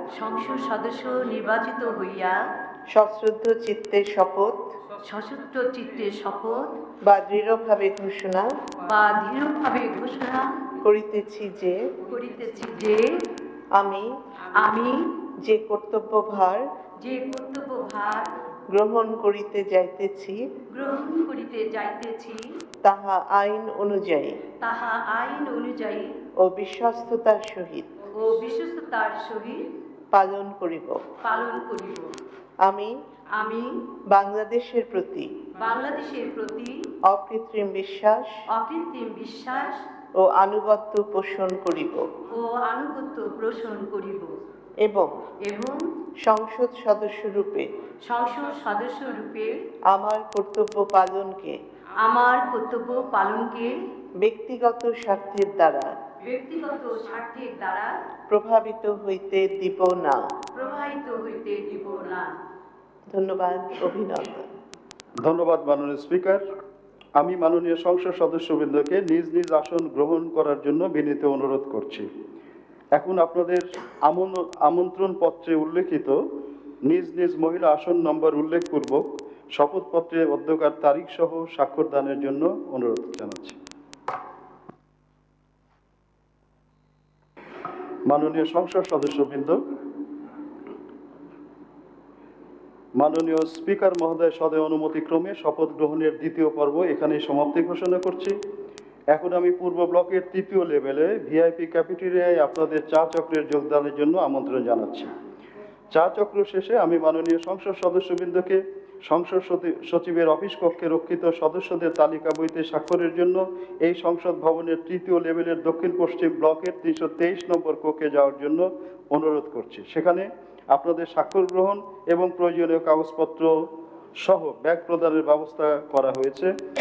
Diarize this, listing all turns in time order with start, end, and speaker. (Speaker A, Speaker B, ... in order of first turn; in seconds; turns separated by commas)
Speaker A: 0.1-2.4, Speaker B: 2.9-4.6, Speaker A: 5.0-6.8, Speaker B: 7.1-8.5, Speaker A: 8.8-10.5, Speaker B: 10.8-11.8, Speaker A: 12.1-13.1, Speaker B: 13.8-14.1, Speaker A: 14.6-15.0, Speaker B: 15.4-16.6, Speaker A: 17.0-18.3, Speaker B: 18.7-20.4, Speaker A: 20.7-22.4, Speaker B: 22.8-24.4, Speaker A: 24.6-26.1, Speaker B: 26.4-27.9, Speaker A: 28.2-29.7, Speaker B: 30.1-31.0, Speaker A: 31.2-32.1, Speaker B: 32.6-32.9, Speaker A: 33.3-33.7, Speaker B: 34.1-35.3, Speaker A: 35.6-36.7, Speaker B: 37.1-38.3, Speaker A: 38.5-39.8, Speaker B: 40.2-42.1, Speaker A: 42.3-44.4, Speaker B: 44.8-45.1, Speaker A: 45.4-45.8, Speaker B: 46.2-47.7, Speaker A: 48.0-49.6, Speaker B: 49.9-51.5, Speaker A: 52.0-53.7, Speaker B: 54.2-55.9, Speaker A: 56.2-57.9, Speaker B: 58.3-60.2, Speaker A: 60.5-62.3, Speaker B: 63.1-64.5, Speaker C: 65.2-66.4, Speaker C: 67.2-72.1, Speaker C: 73.0-76.2, Speaker C: 76.8-79.0, Speaker C: 79.6-83.6, Speaker C: 88.1-89.6, Speaker C: 93.0-98.4, Speaker C: 99.1-105.1, Speaker C: 105.9-123.5, Speaker C: 124.2-126.5